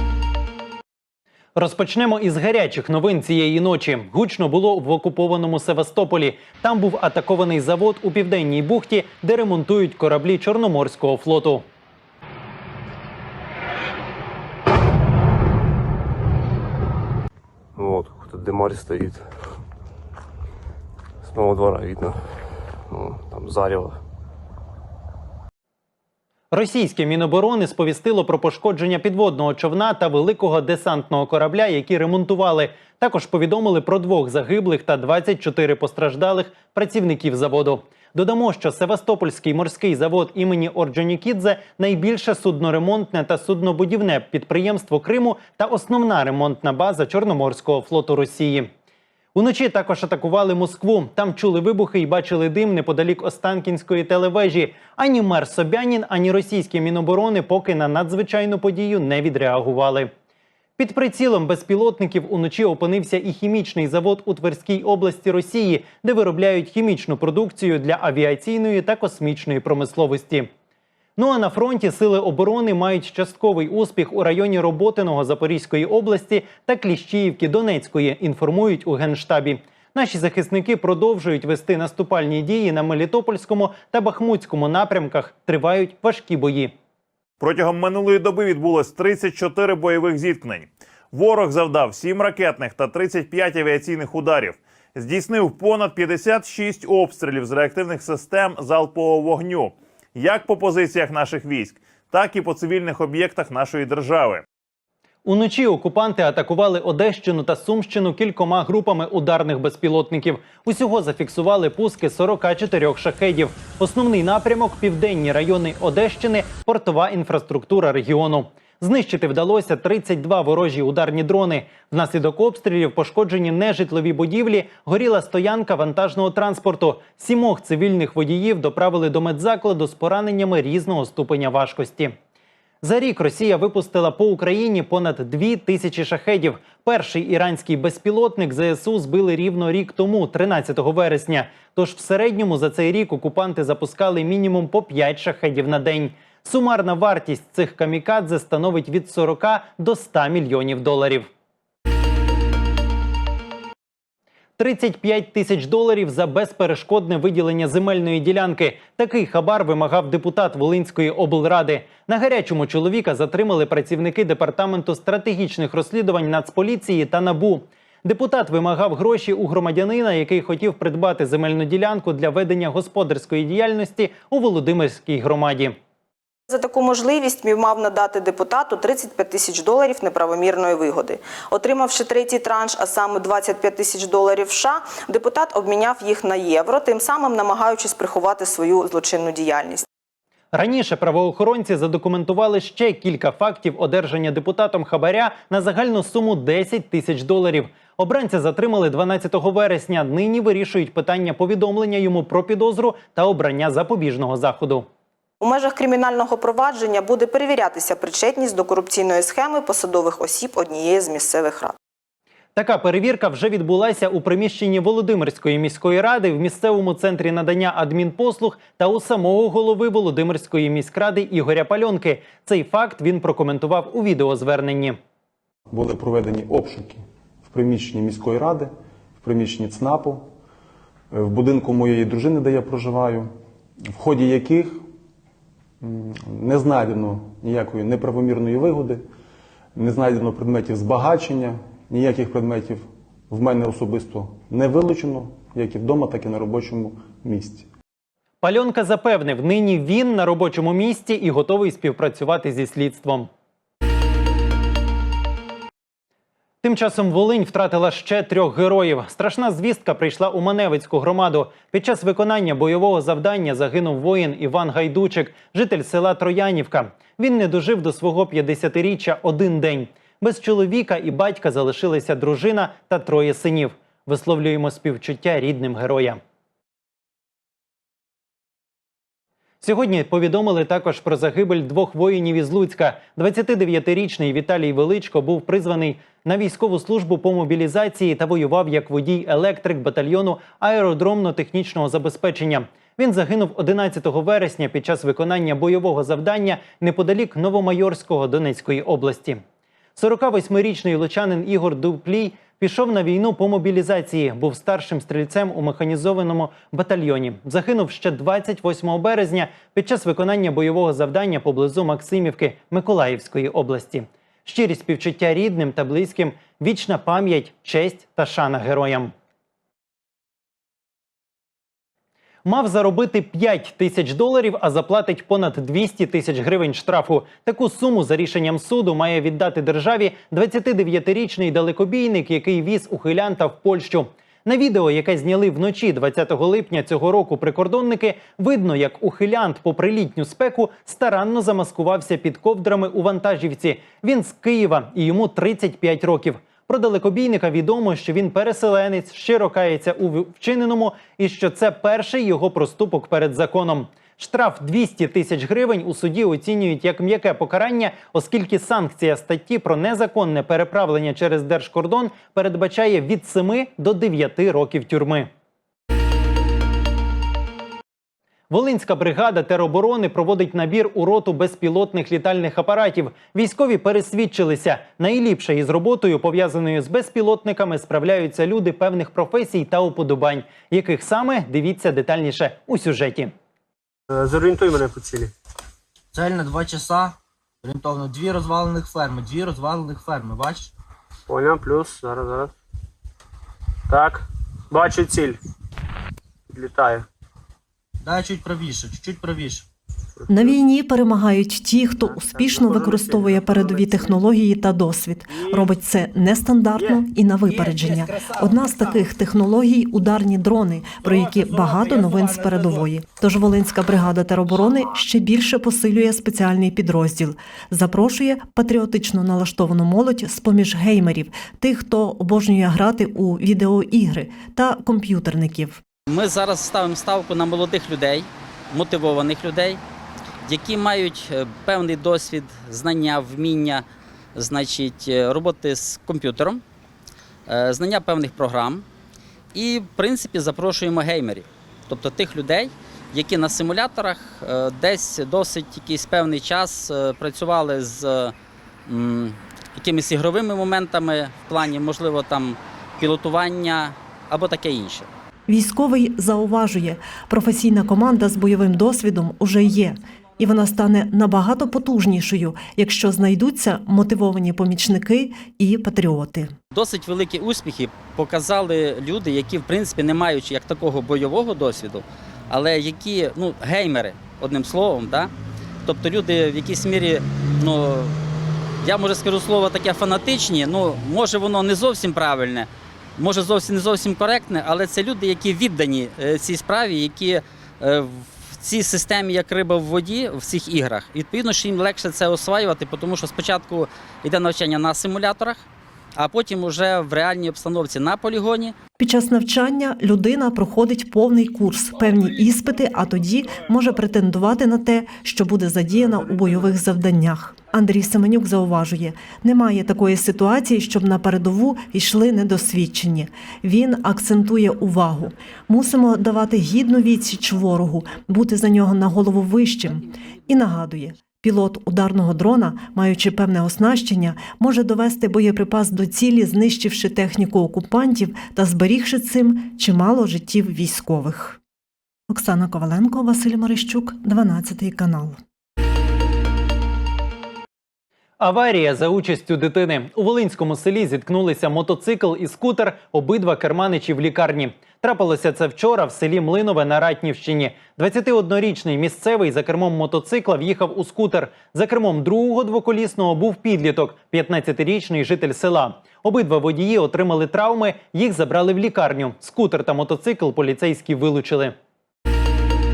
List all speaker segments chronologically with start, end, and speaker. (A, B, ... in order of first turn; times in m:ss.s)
0:01.5-0:11.6 A
0:17.8-0:19.2 B
0:21.2-0:22.2 B
0:22.9-0:24.0 B
0:26.5-0:48.7 A
0:49.3-1:00.1 A
1:00.8-1:10.5 A
1:11.2-1:26.7 A
1:27.4-1:44.4 C
1:45.2-2:12.1 A
2:12.8-2:31.3 A
2:34.6-2:55.8 A
2:56.5-3:09.9 D
3:10.5-3:24.8 A
3:25.4-3:31.8 D
3:32.5-3:45.0 A
3:45.7-3:50.3 E
3:51.1-3:53.3 E
3:53.9-3:54.8 E
3:55.8-3:59.0 E
3:59.8-4:07.7 E
4:08.4-4:13.3 A
4:16.6-4:36.2 A
4:39.6-4:59.4 A
5:00.0-5:19.1 A
5:22.4-6:05.3 A
6:08.5-6:23.3 A
6:24.1-6:25.3 F
6:26.1-6:30.7 G
6:31.3-6:32.5 F
6:33.9-6:35.4 F
6:36.5-6:37.0 F
6:38.0-6:39.6 G
6:40.2-6:40.6 F
6:40.3-7:05.8 H
6:42.0-6:44.2 F
6:45.3-6:45.8 F
6:51.4-6:51.8 G
7:06.1-7:09.8 I
7:10.4-7:13.8 I
7:14.3-7:16.6 I
7:17.5-7:18.8 I
7:19.5-7:28.3 I
7:28.9-7:35.1 I
7:35.5-7:46.5 H
7:46.7-7:55.3 I
7:55.8-7:58.1 I
7:58.8-8:15.6 I
8:16.2-8:18.7 I
8:19.0-8:51.6 H
8:26.0-8:26.8 F
8:52.3-8:55.4 H
8:58.4-9:21.7 A